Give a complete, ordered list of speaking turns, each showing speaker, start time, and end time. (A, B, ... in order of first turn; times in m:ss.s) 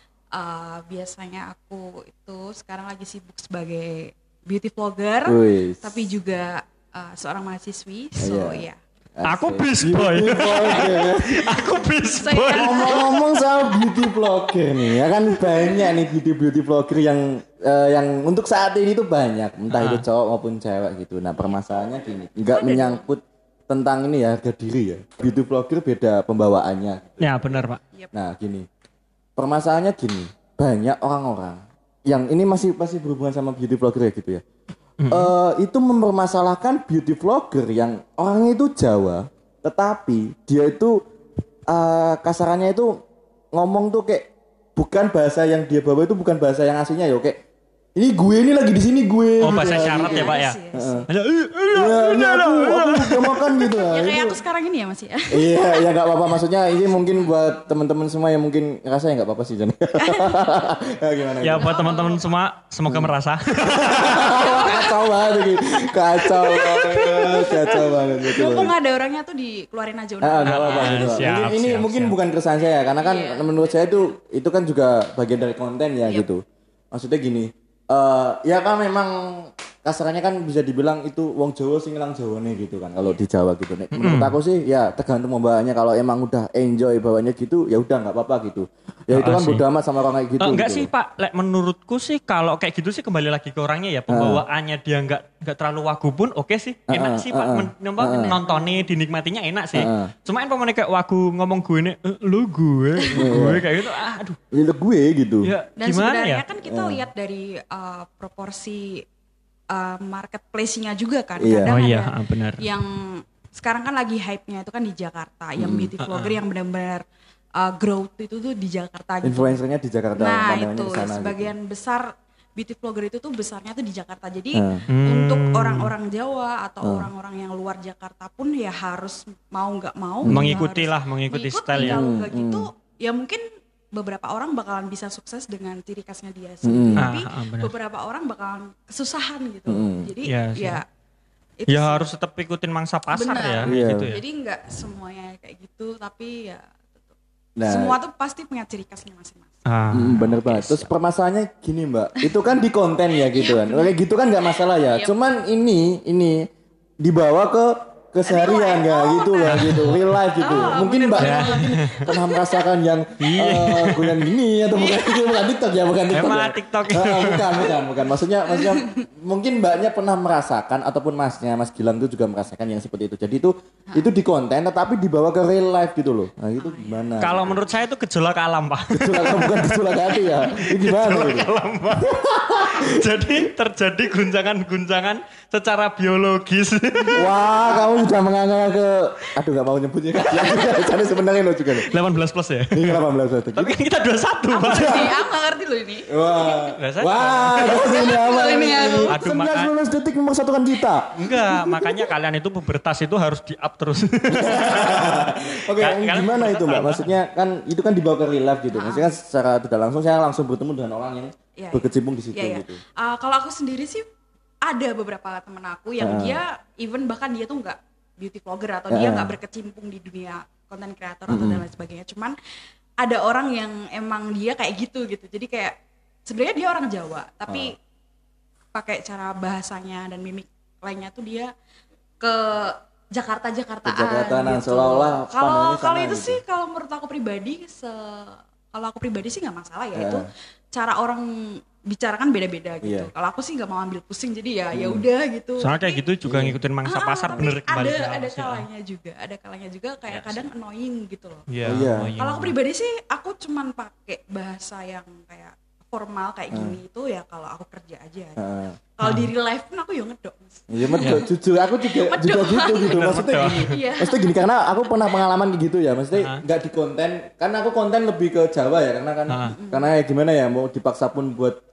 0:00.3-0:08.8 A
0:05.3-0:06.1 B
0:08.2-0:11.6 B
0:09.2-0:13.0 C
0:10.8-0:14.2 A
0:12.6-0:27.4 B
0:15.1-0:15.9 A
0:19.7-0:20.0 C
0:22.5-0:23.0 A
0:27.2-0:27.8 C
0:28.1-0:28.7 B
0:29.4-0:34.4 B
0:35.0-0:35.3 C
0:35.1-0:41.0 B
0:41.7-0:42.9 B
0:43.5-0:47.4 B
0:48.0-0:51.1 B
0:49.4-0:50.6 C
0:49.5-0:51.1 A
0:51.1-0:53.5 C
0:51.7-0:54.4 B
0:53.7-0:55.7 A
0:55.3-1:01.9 B
1:00.0-1:00.4 A
1:01.4-1:04.7 C
1:01.6-1:02.3 A
1:02.9-1:03.1 B
1:03.8-1:08.7 B
1:04.1-1:05.5 A
1:06.2-1:11.4 A
1:08.5-1:08.7 C
1:10.2-1:30.9 B
1:10.4-1:12.2 C
1:13.0-1:13.8 A
1:23.0-1:23.2 A
1:23.9-1:24.4 C
1:29.1-1:29.6 C
1:30.4-1:44.4 C
1:34.1-1:34.4 B
1:36.9-1:38.4 B
1:38.2-1:38.6 A
1:39.7-1:40.1 B
1:43.1-1:43.7 B
1:44.5-1:45.5 B
1:45.4-1:46.4 C
1:45.8-1:49.0 A
1:46.6-1:47.1 B
1:49.7-1:57.0 A
1:51.4-1:51.8 B
1:51.6-1:52.6 C
1:55.6-1:55.9 B
1:56.0-1:56.4 C
1:57.6-1:59.6 A
1:59.2-2:01.5 B
2:00.2-2:20.8 A
2:04.5-2:04.8 B
2:04.9-2:05.9 C
2:06.8-2:07.1 B
2:10.2-2:10.6 B
2:10.3-2:12.0 C
2:11.8-2:12.7 B
2:16.6-2:17.1 B
2:17.0-2:17.7 C
2:19.7-2:20.1 B
2:20.3-2:20.8 C
2:21.6-2:22.1 A
2:21.7-2:24.2 C
2:23.1-2:26.9 A
2:23.6-2:24.1 B
2:27.6-2:28.0 B
2:27.6-2:29.6 A
2:29.7-2:30.6 C
2:29.9-2:36.5 B
2:30.5-2:30.9 A
2:33.3-2:33.9 A
2:34.9-2:35.1 A
2:37.0-2:57.6 B
2:38.2-2:42.5 A
2:39.5-2:40.0 C
2:41.2-2:42.0 C
2:43.2-2:44.3 C
2:44.8-2:45.4 A
2:46.1-2:47.7 C
2:48.5-2:49.0 A
2:56.6-2:57.5 A
2:57.2-3:07.3 C
2:58.9-3:03.1 B
3:07.2-3:11.9 B
3:11.8-3:13.0 C
3:12.7-3:13.8 B
3:13.5-3:15.1 C
3:14.5-3:16.7 A
3:14.7-3:15.0 B
3:16.1-3:21.2 B
3:16.8-3:17.8 C
3:17.6-3:19.2 A
3:19.1-3:19.7 C
3:21.2-3:27.1 C
3:24.3-3:32.8 B
3:28.7-3:29.1 A
3:31.6-3:34.0 A
3:34.6-3:42.4 A
3:36.0-3:36.4 B
3:38.9-3:39.4 B
3:41.3-3:41.6 B
3:43.0-3:47.7 A
3:48.7-3:51.5 A
3:52.2-4:06.1 A
3:53.8-3:56.4 B
4:00.0-4:00.3 B
4:02.8-4:03.1 B
4:04.7-4:05.1 B
4:05.6-4:08.7 C
4:06.2-4:06.6 B
4:06.8-4:11.5 A
4:10.1-4:10.5 C
4:11.5-4:12.6 C
4:11.6-4:12.2 B
4:12.1-4:18.4 A
4:16.5-4:16.8 B
4:18.4-4:18.8 B
4:19.0-4:21.3 A
4:19.0-4:19.3 C
4:20.7-4:31.6 B
4:21.0-4:21.3 C
4:21.8-4:24.3 A
4:22.8-4:23.8 C
4:26.2-4:26.4 C
4:29.3-4:29.5 C
4:29.5-4:29.9 A